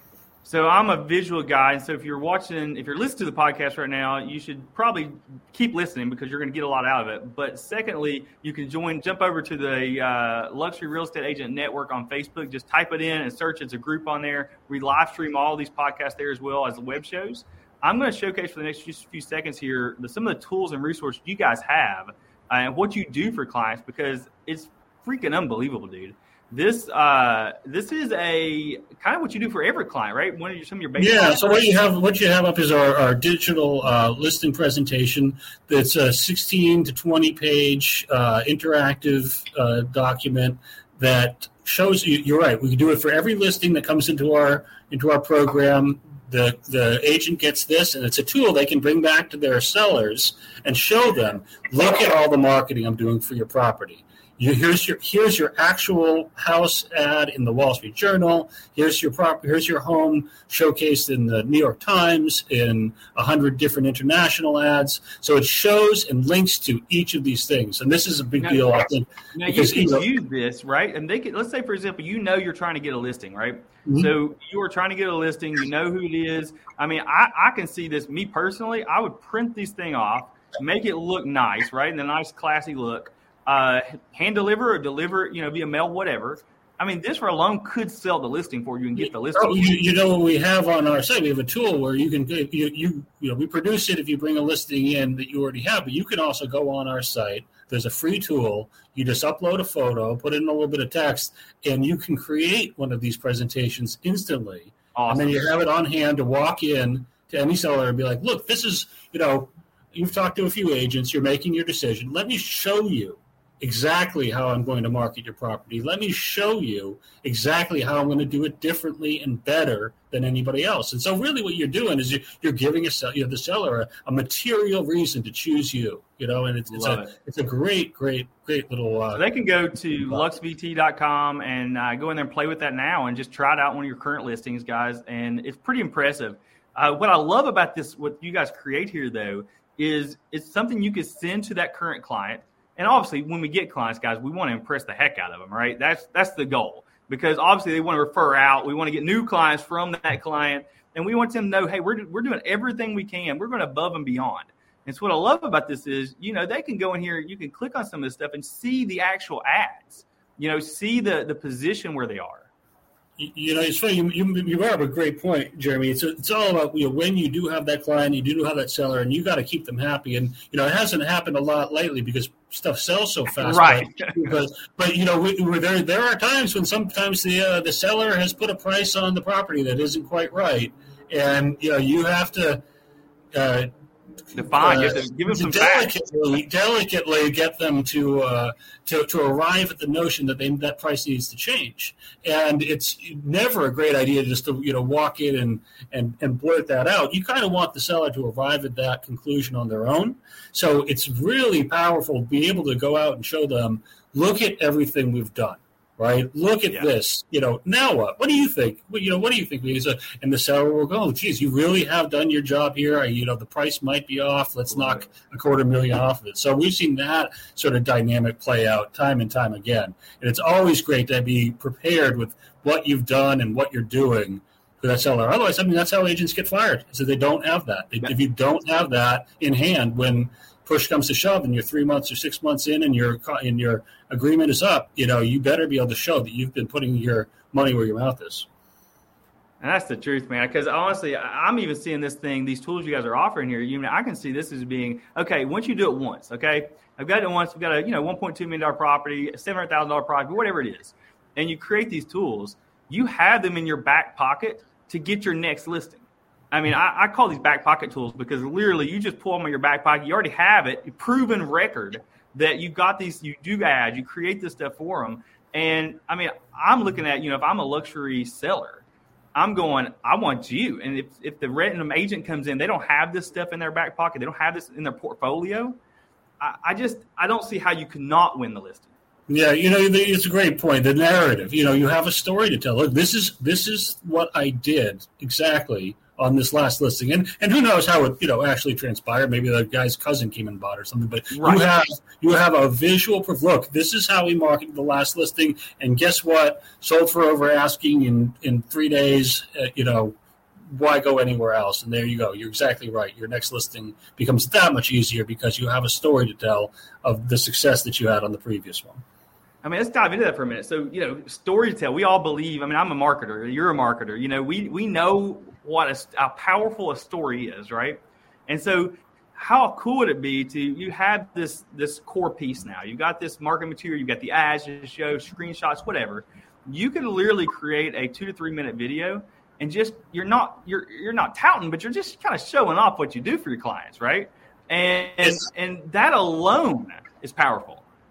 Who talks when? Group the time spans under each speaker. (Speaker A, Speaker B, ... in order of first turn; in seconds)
Speaker A: 0.5-31.6, 68.4-68.7, 69.3-89.7, 105.0-105.5, 126.7-127.1, 129.2-162.5, 173.4-174.3, 184.3-185.9, 239.6-268.8, 269.4-275.8, 276.4-278.9, 291.3-291.7, 309.6-337.8
Speaker B: 31.0-70.1, 73.8-74.1, 89.0-129.2, 163.2-182.6, 183.3-183.7, 184.5-238.5, 279.3-300.2, 300.7-309.0